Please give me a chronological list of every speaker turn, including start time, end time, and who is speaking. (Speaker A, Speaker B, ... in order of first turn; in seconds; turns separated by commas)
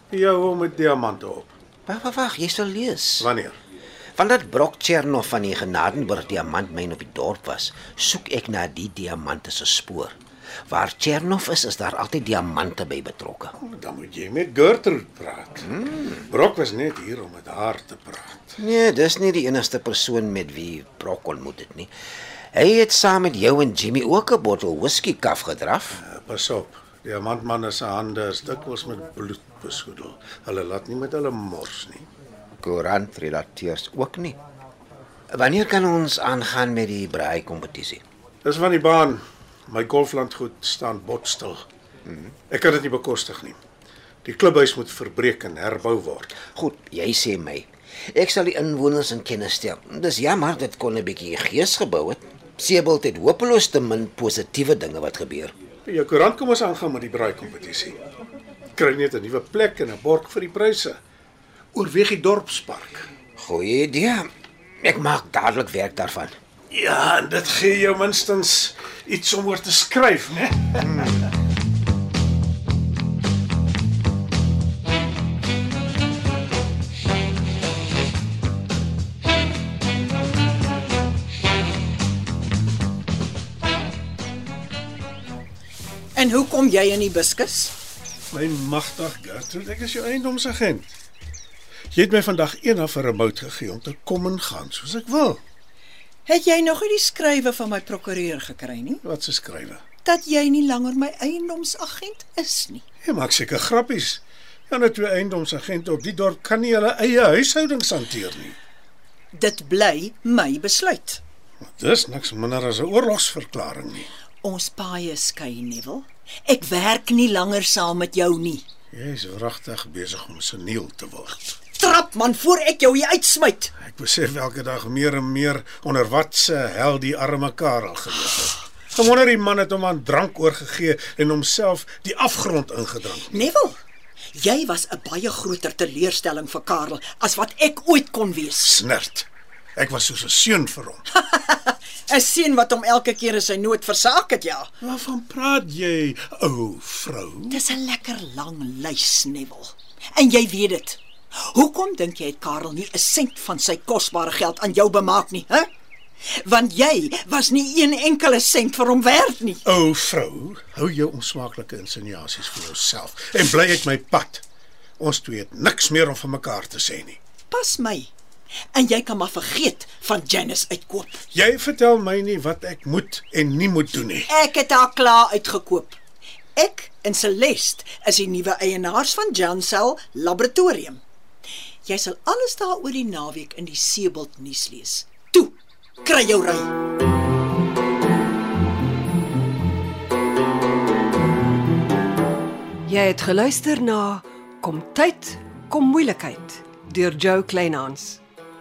Speaker A: 0.1-1.5, Speaker B: 1.9-3.3, Speaker A: 3.2-3.6, Speaker B: 4.2-10.2, Speaker B: 10.7-13.5, Speaker A: 13.6-15.7, Speaker B: 15.7-16.1, Speaker A: 16.3-18.6, Speaker B: 18.6-21.9, Speaker B: 22.5-26.0, Speaker A: 26.0-32.1, Speaker B: 32.6-34.4, Speaker B: 35.3-38.0, Speaker A: 38.4-41.6, Speaker B: 42.0-42.3, Speaker A: 42.5-43.6, Speaker A: 44.2-46.3, Speaker B: 46.4-55.5, Speaker A: 55.9-58.0, Speaker A: 58.7-61.0, Speaker A: 61.7-63.1, Speaker B: 63.4-64.3, Speaker B: 64.8-66.4, Speaker A: 66.7-71.0, Speaker C: 86.2-87.7, Speaker A: 88.3-90.9, Speaker A: 91.9-95.4, Speaker C: 96.3-99.0, Speaker A: 99.0-99.8, Speaker C: 100.0-102.8, Speaker A: 103.0-108.5, Speaker C: 109.3-111.2, Speaker A: 111.7-114.1, Speaker C: 114.4-118.6, Speaker A: 118.9-121.5, Speaker C: 121.7-123.7, Speaker A: 123.8-133.5, Speaker C: 133.3-133.8, Speaker C: 134.3-138.8, Speaker A: 138.6-141.0, Speaker C: 141.1-144.7, Speaker A: 144.8-147.6, Speaker C: 147.5-155.7, Speaker C: 156.3-159.6, Speaker A: 159.6-164.4, Speaker A: 165.0-167.2, Speaker C: 167.5-168.1, Speaker C: 168.7-171.2, Speaker A: 171.3-174.3, Speaker C: 174.3-176.0, Speaker C: 176.6-181.0, Speaker C: 181.8-186.7, Speaker D: 192.9-198.2